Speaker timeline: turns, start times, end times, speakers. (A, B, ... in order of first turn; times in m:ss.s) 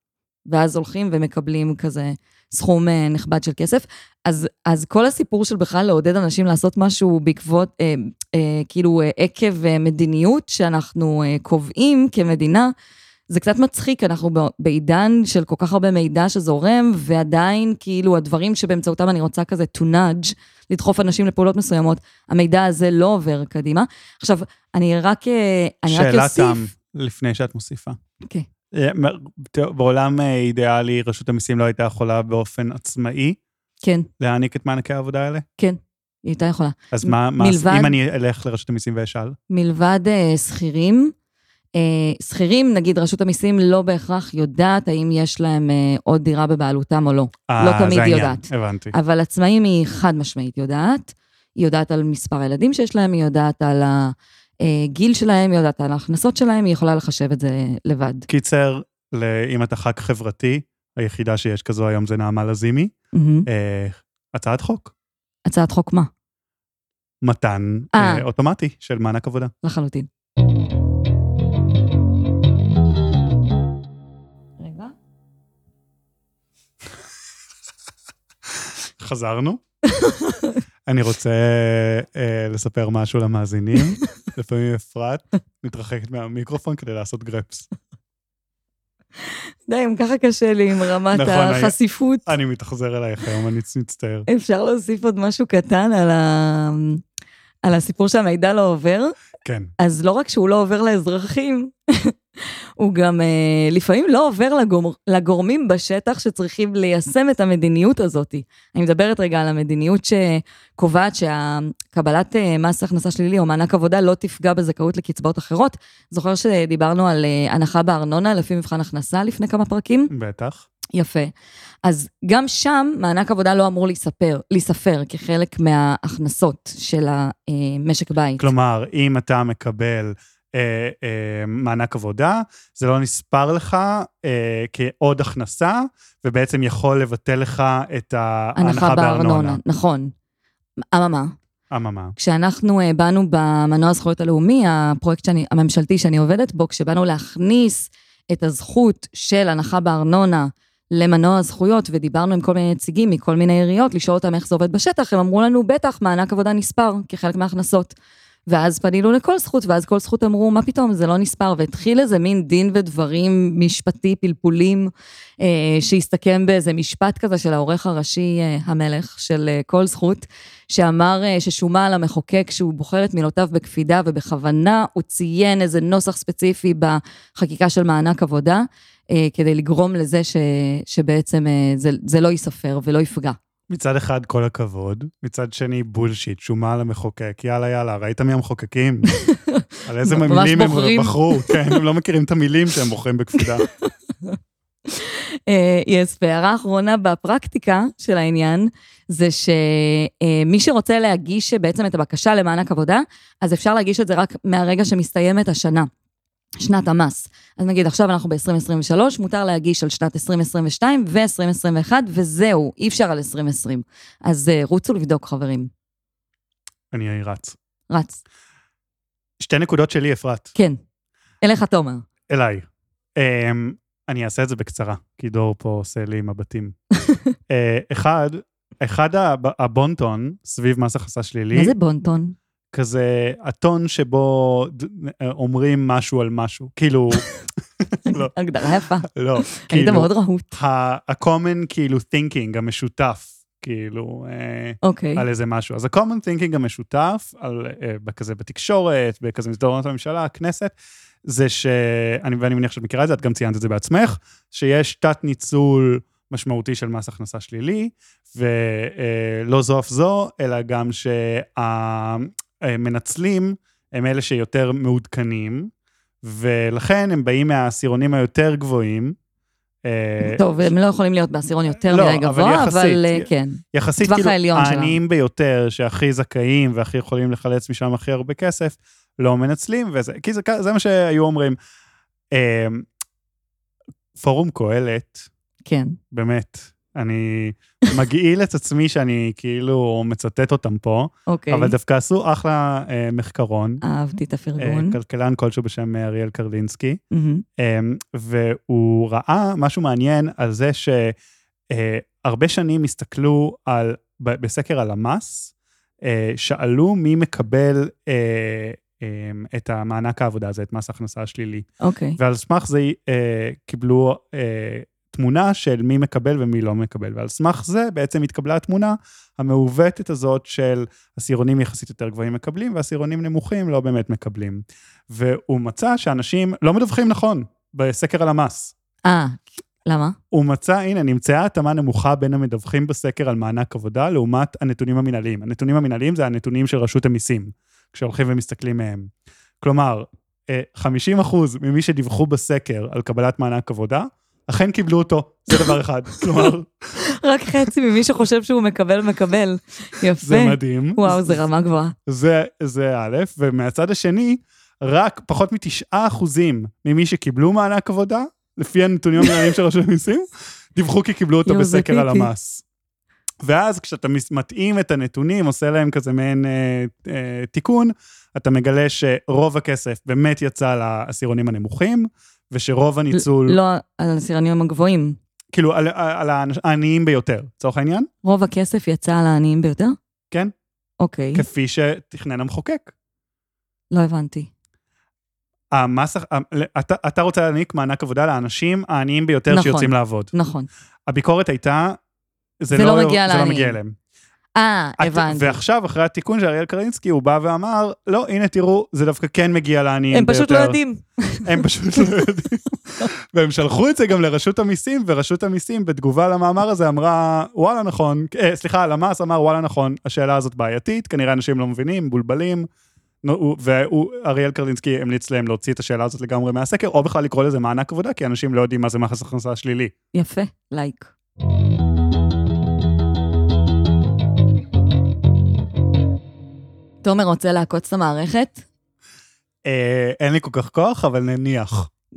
0:00.5-0:12.7 A
0:13.3-0:26.6 A
0:25.9-0:28.0 B
0:28.7-0:33.4 B
0:33.8-0:34.1 A
0:34.2-0:35.4 B
0:35.6-0:37.9 A
0:36.9-0:39.4 B
0:39.5-0:41.1 A
0:41.8-0:58.3 A
0:47.5-0:48.9 B
0:58.3-1:02.9 B
1:03.1-1:03.4 A
1:03.5-1:04.9 B
1:05.4-1:06.1 A
1:07.2-1:09.5 B
1:07.9-1:08.2 A
1:09.6-1:10.1 A
1:14.6-1:14.9 A
1:19.0-1:19.6 B
1:19.9-1:20.6 A
1:20.9-1:27.7 B
1:29.2-1:32.3 A
1:31.1-1:34.3 B
1:34.3-1:37.0 A
1:37.6-1:39.1 A
1:39.4-1:39.7 B
1:39.8-2:00.1 A
2:00.1-2:00.6 B
2:00.9-2:01.3 A
2:01.8-2:08.5 A
2:08.4-2:19.6 B
2:18.6-2:20.1 A
2:20.9-2:21.3 A
2:21.7-2:22.2 B
2:22.2-2:37.9 A
2:38.5-3:03.4 A
3:03.7-3:09.1 B
3:09.2-3:11.8 A
3:09.8-3:13.6 B
3:13.6-3:14.3 A
3:14.9-3:25.9 A
3:26.6-3:35.7 A
3:36.9-3:37.6 B
3:37.9-3:38.2 A
3:39.4-3:40.5 B
3:41.4-3:42.0 A
3:42.3-3:46.7 B
3:47.5-3:51.7 B
3:51.5-3:52.3 A
3:52.7-3:57.2 B
3:57.8-3:58.3 B
3:58.1-4:00.5 A
3:59.0-4:25.7 B
4:04.8-4:05.2 A
4:26.2-4:29.2 B
4:29.8-4:30.7 B
4:30.2-4:35.0 A
4:31.9-4:41.6 B
4:42.3-4:42.9 B
4:44.2-4:45.3 B
4:45.6-4:46.0 A
4:46.1-4:53.8 B
4:51.3-4:51.7 A
4:53.8-4:55.0 A
4:54.6-4:57.0 B
4:57.1-4:57.4 A
4:57.6-5:01.1 B
5:01.7-5:05.5 B
5:06.0-5:11.7 B
5:11.8-5:12.2 A
5:12.2-5:28.7 B
5:29.0-5:30.2 A
5:30.3-5:39.1 B
5:39.6-5:46.9 B
5:46.2-5:51.9 A
5:50.2-5:51.4 B
5:52.1-6:02.6 B
6:01.4-6:02.3 A
6:03.4-6:13.6 B
6:13.1-6:15.2 A
6:15.5-6:18.1 B
6:18.2-6:20.0 A
6:21.0-6:21.4 A
6:21.3-6:22.9 B
6:23.9-6:24.5 A
6:25.7-6:30.3 B
6:29.5-6:30.7 A
6:31.1-6:32.0 B
6:32.6-6:34.0 B
6:32.7-6:33.8 A
6:34.6-6:35.6 A
6:35.0-6:40.8 B
6:40.1-6:41.5 A
6:41.4-6:52.7 B
6:53.2-6:59.9 B
7:00.1-7:01.1 A
7:07.0-7:08.6 A
7:09.6-7:11.9 B